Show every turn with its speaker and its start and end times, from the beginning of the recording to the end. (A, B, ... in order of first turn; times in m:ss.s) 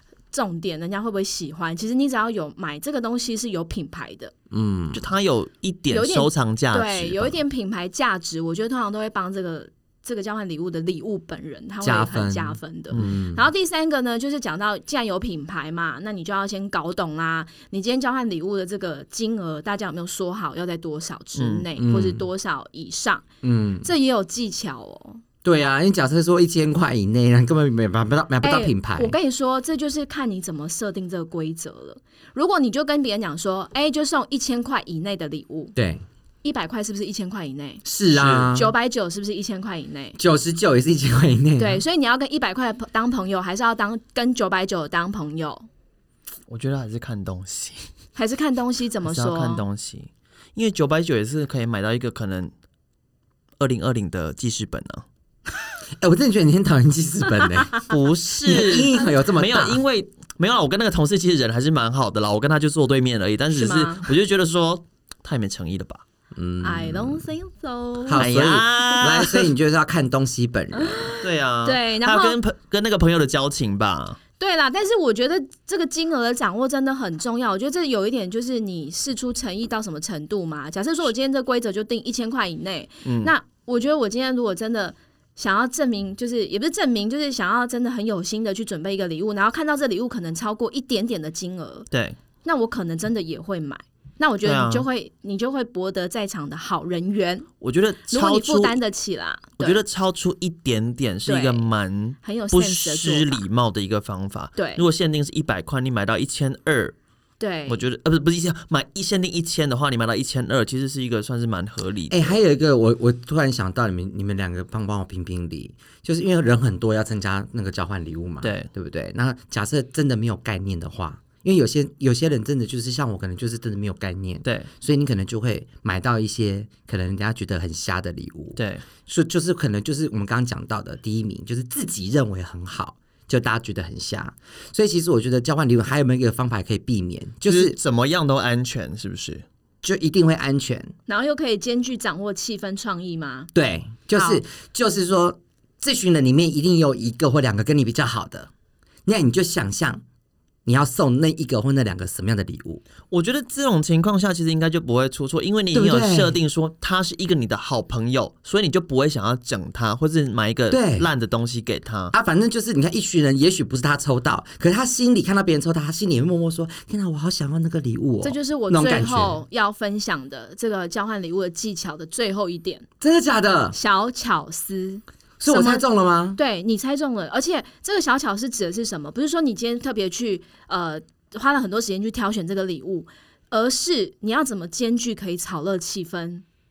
0:00.3-0:04.3 A
0:04.5-0:05.1 B
0:04.9-0:07.4 C
0:05.9-0:23.2 A
0:11.8-0:13.5 B
0:21.4-0:21.6 C
0:21.8-0:22.2 B
0:23.4-0:23.9 B
0:23.8-0:25.2 A
0:25.4-0:29.2 B
0:28.4-0:35.7 A
0:35.8-0:36.0 B
0:36.4-0:37.8 A
0:37.8-0:38.7 B
0:38.1-0:38.5 C
0:38.5-0:40.2 A
0:40.2-0:41.8 B
0:41.6-0:45.6 A
0:46.5-0:47.8 C
0:48.1-0:49.6 A
0:49.0-0:52.5 C
0:53.6-0:55.0 C
0:56.0-0:57.8 B
0:57.9-1:06.0 C
0:58.4-0:59.8 B
1:03.5-1:04.1 A
1:06.3-1:07.3 B
1:06.6-1:09.2 A
1:08.0-1:11.1 B
1:08.2-1:09.4 C
1:10.8-1:12.4 A
1:11.2-1:14.2 C
1:14.4-1:31.9 A
1:23.0-1:23.3 C
1:31.9-1:32.2 C
1:32.4-1:37.5 A
1:34.4-1:34.8 C
1:37.6-1:38.8 C
1:38.1-1:39.8 A
1:39.6-1:46.9 C
1:41.2-1:41.7 A
1:42.2-1:43.4 A
1:44.6-1:44.8 A
1:47.4-1:47.8 A
1:47.7-1:52.3 C
1:52.1-2:17.8 B
1:58.4-1:58.7 C
2:04.4-2:04.7 C
2:08.6-2:08.8 C
2:17.4-2:19.4 C
2:19.8-2:20.9 B
2:21.1-2:23.5 A
2:23.5-2:28.5 B
2:24.1-2:24.4 A
2:29.0-2:30.0 B
2:30.6-2:32.8 B
2:33.1-2:42.1 C
2:35.7-2:36.3 B
2:40.7-2:41.1 B
2:42.1-2:49.4 B
2:48.2-2:52.8 A
2:53.0-2:53.8 B
2:53.7-3:06.4 A
2:55.4-2:56.4 B